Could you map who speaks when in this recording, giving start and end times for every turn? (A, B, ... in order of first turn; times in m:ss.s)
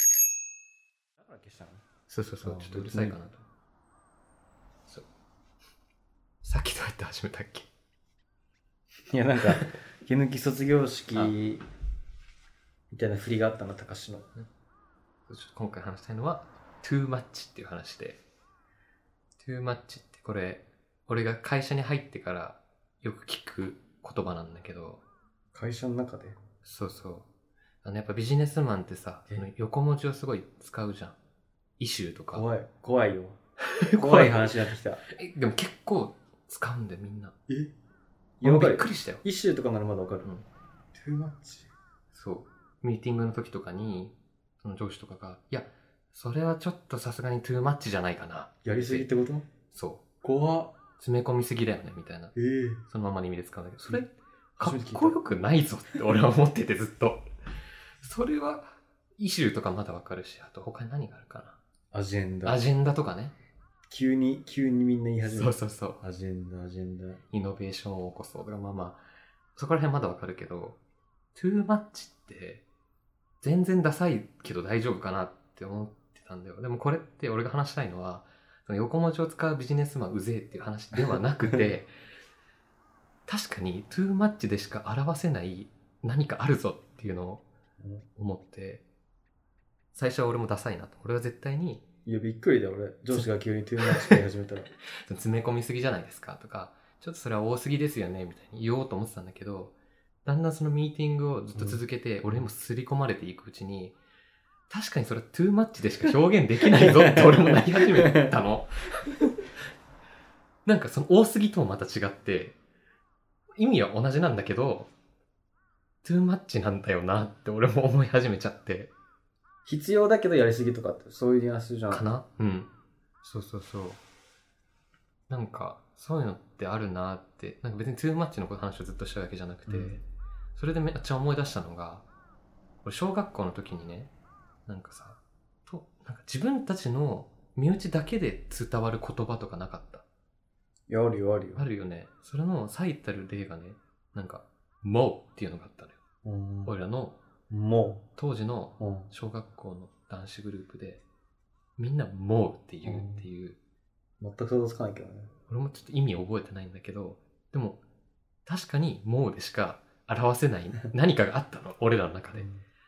0:01.2-0:01.8 A
0:02.1-0:03.4 B
0:02.4-0:03.2 A
0:06.4-0:07.7 B
0:09.1-0:11.6 A
0:12.9-0:14.3 A
0:15.3-0:18.2 B
0:19.4-0:25.0 B
0:25.5-0:26.4 A
0:26.6-0:27.3 B
0:27.8-0:31.2 B
0:31.8-0:32.4 B
0:32.3-0:33.4 A
0:33.7-0:34.5 B
0:33.9-0:35.0 A
0:35.1-0:37.3 B
0:38.4-0:40.3 A
0:38.4-0:39.2 B
0:41.0-0:41.7 A
0:42.1-0:49.1 B
0:48.6-0:49.4 A
0:49.7-0:50.0 B
0:50.2-0:50.7 A
0:51.0-0:52.3 B
0:52.3-0:52.8 A
0:52.8-0:57.2 B
0:54.6-0:55.2 A
0:58.0-1:01.6 B
1:01.9-1:02.6 A
1:02.4-1:03.3 B
1:03.9-1:07.2 A
1:05.3-1:06.0 B
1:07.3-1:09.0 B
1:09.5-1:10.8 B
1:11.3-1:12.6 B
1:13.4-1:21.9 B
1:21.0-1:21.6 A
1:23.3-1:27.4 B
1:27.8-1:28.0 A
1:28.2-1:28.8 B
1:29.9-1:31.8 B
1:32.0-1:34.7 A
1:33.8-1:34.2 B
1:35.0-1:44.0 B
1:41.6-1:42.5 A
1:44.7-1:49.1 B
1:46.8-1:48.4 A
1:50.6-1:52.6 B
1:53.6-1:54.9 B
1:56.0-1:58.9 B
1:59.6-2:02.0 A
2:01.9-2:02.7 B
2:03.2-2:04.0 B
2:05.3-2:10.0 B
2:09.7-2:10.0 A
2:10.5-2:12.0 B
2:12.8-2:14.1 B
2:14.7-2:20.0 B
2:20.9-2:21.7 A
2:21.6-2:26.0 B
2:26.2-2:26.7 A
2:26.6-2:27.2 B
2:27.5-2:28.0 A
2:28.1-2:31.0 B
2:28.8-2:29.1 A
2:31.8-2:33.6 B
2:32.8-2:33.2 A
2:34.2-2:35.3 A
2:35.5-2:37.8 B
2:38.4-2:42.4 B
2:42.3-2:42.6 A